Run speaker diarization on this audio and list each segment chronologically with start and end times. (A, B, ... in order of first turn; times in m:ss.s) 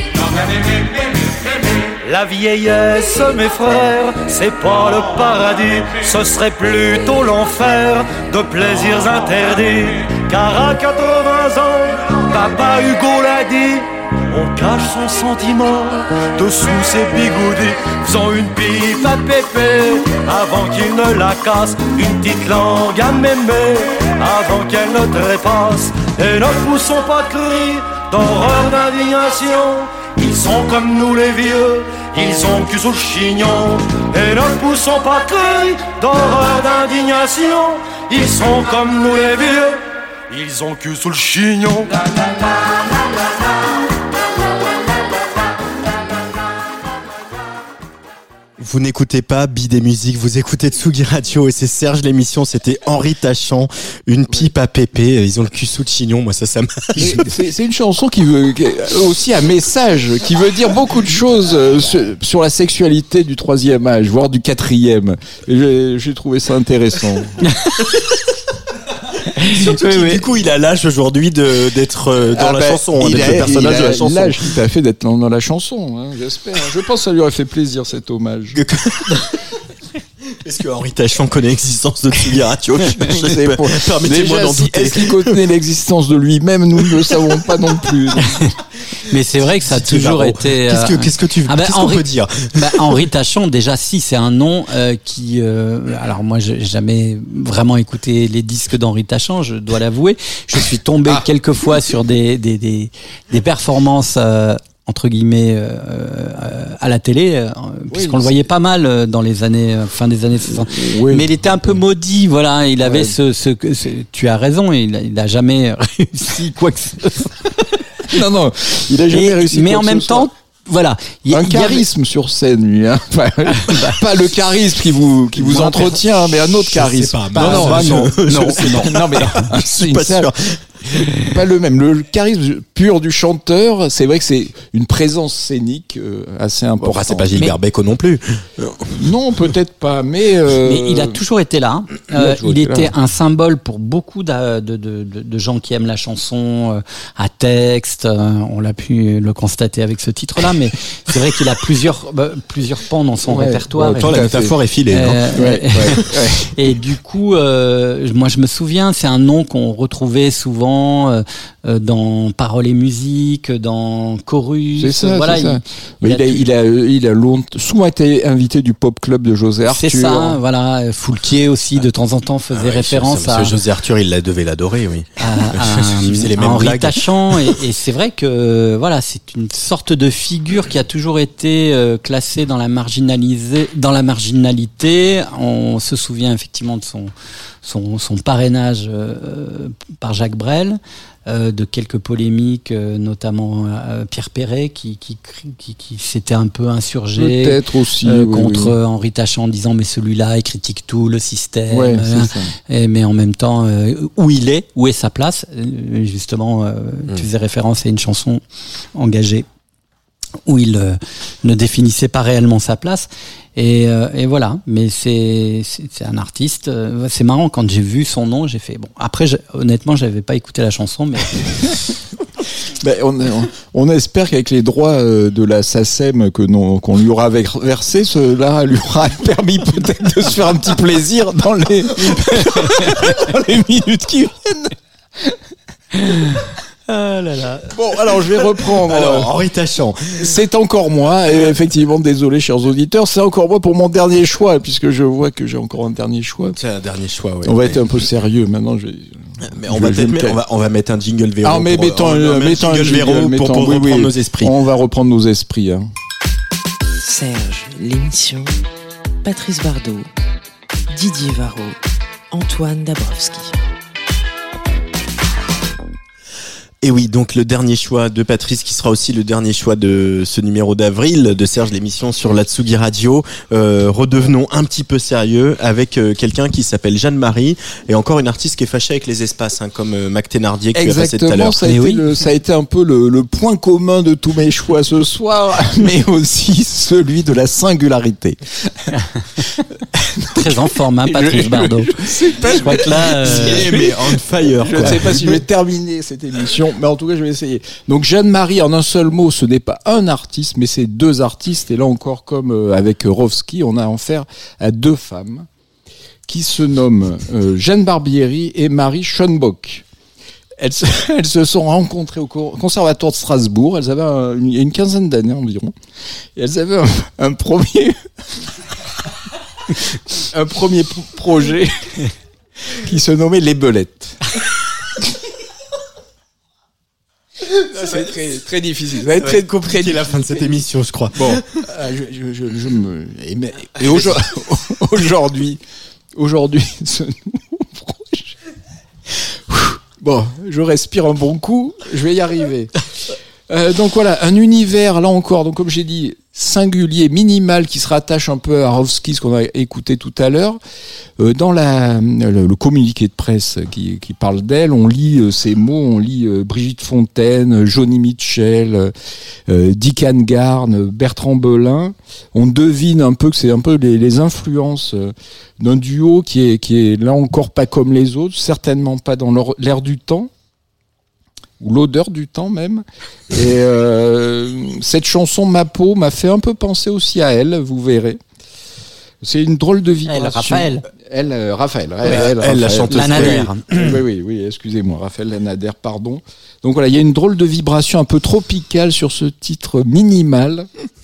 0:02.0-0:42.1 A
0:48.6-0:57.2 B
0:57.0-1:07.3 C
1:09.4-1:10.2 D
1:09.5-1:14.5 B
1:12.3-1:18.6 C
1:18.5-1:19.3 B
1:20.4-1:25.4 B
1:23.0-1:28.3 C
1:29.1-1:57.5 D
1:29.4-1:33.0 B
1:47.9-1:48.4 C
1:50.6-1:51.3 C
1:52.8-1:53.1 C
1:58.1-2:00.3 C
1:59.1-2:01.8 D
2:01.3-2:10.3 C
2:03.6-2:03.9 D
2:05.4-2:11.0 B
2:07.3-2:08.8 D
2:11.2-2:17.5 C
2:16.8-2:19.1 B
2:19.0-2:21.2 C
2:20.6-2:34.2 D
2:22.1-2:22.9 C
2:33.3-2:34.5 C
2:33.9-2:35.2 B
2:34.9-2:46.4 D
2:35.3-2:36.4 C
2:44.8-2:50.4 C
2:49.7-2:53.5 D
2:52.5-2:57.5 B
2:55.2-3:07.1 D
3:07.6-3:28.4 D
3:17.2-3:18.7 C
3:21.7-3:22.5 C
3:28.9-3:29.4 D
3:30.5-3:41.3 D
3:42.8-3:54.8 C
3:56.9-3:57.6 B
3:57.7-3:59.3 C
3:58.4-4:00.3 B
4:00.2-4:06.6 C
4:06.5-4:07.8 B
4:07.4-4:10.4 C
4:09.4-4:14.5 B
4:11.4-4:15.9 C
4:17.0-4:18.6 E
4:19.2-4:20.1 E
4:20.9-4:21.8 E
4:22.3-4:23.6 E
4:26.8-4:41.6 B
4:40.7-4:48.4 C
4:41.6-4:42.0 D
4:50.0-5:05.5 C
4:50.3-4:53.7 D
4:52.6-4:55.4 B
5:06.3-5:09.8 C
5:10.6-5:15.7 C
5:16.4-5:18.0 C
5:19.8-5:22.1 C
5:22.7-5:24.2 C
5:27.7-5:30.2 C
5:29.2-5:31.4 B
5:31.2-5:35.6 C
5:33.8-5:34.2 B
5:36.2-5:38.4 C
5:39.1-5:42.8 C
5:43.5-5:50.6 C
5:51.2-5:58.9 C
5:59.5-6:10.3 C
6:11.6-6:18.2 C
6:19.2-6:30.7 C
6:20.0-6:20.8 D
6:22.0-6:23.5 B
6:22.9-6:24.0 D